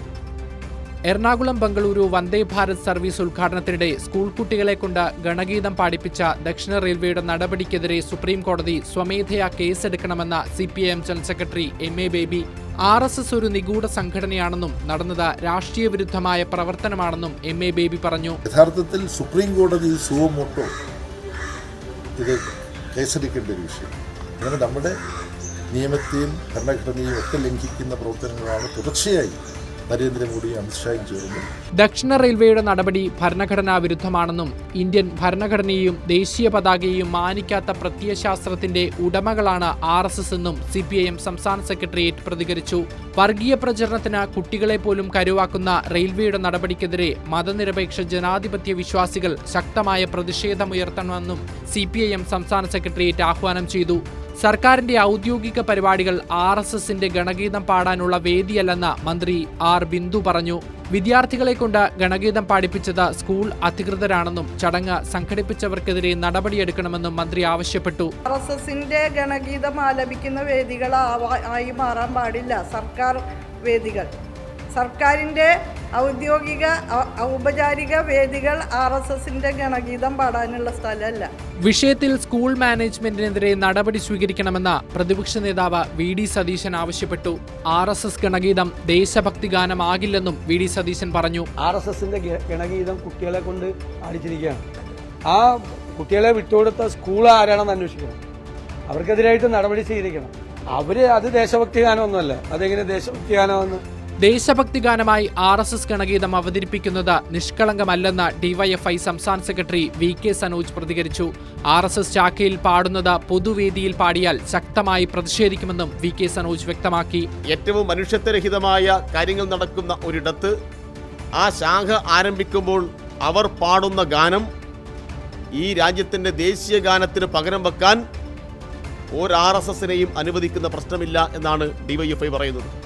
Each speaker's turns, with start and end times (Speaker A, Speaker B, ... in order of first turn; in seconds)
Speaker A: 1.1-18.4, 31.8-68.1, 81.7-91.5, 104.2-117.3
Speaker B: 18.5-20.7, 22.9-25.0, 25.7-29.4, 29.9-31.5
Speaker C: 68.3-74.1, 74.8-81.3
Speaker D: 91.6-94.6, 95.3-98.2, 98.9-103.8
Speaker E: 117.5-120.5, 121.4-124.5, 125.5-128.0, 129.2-132.7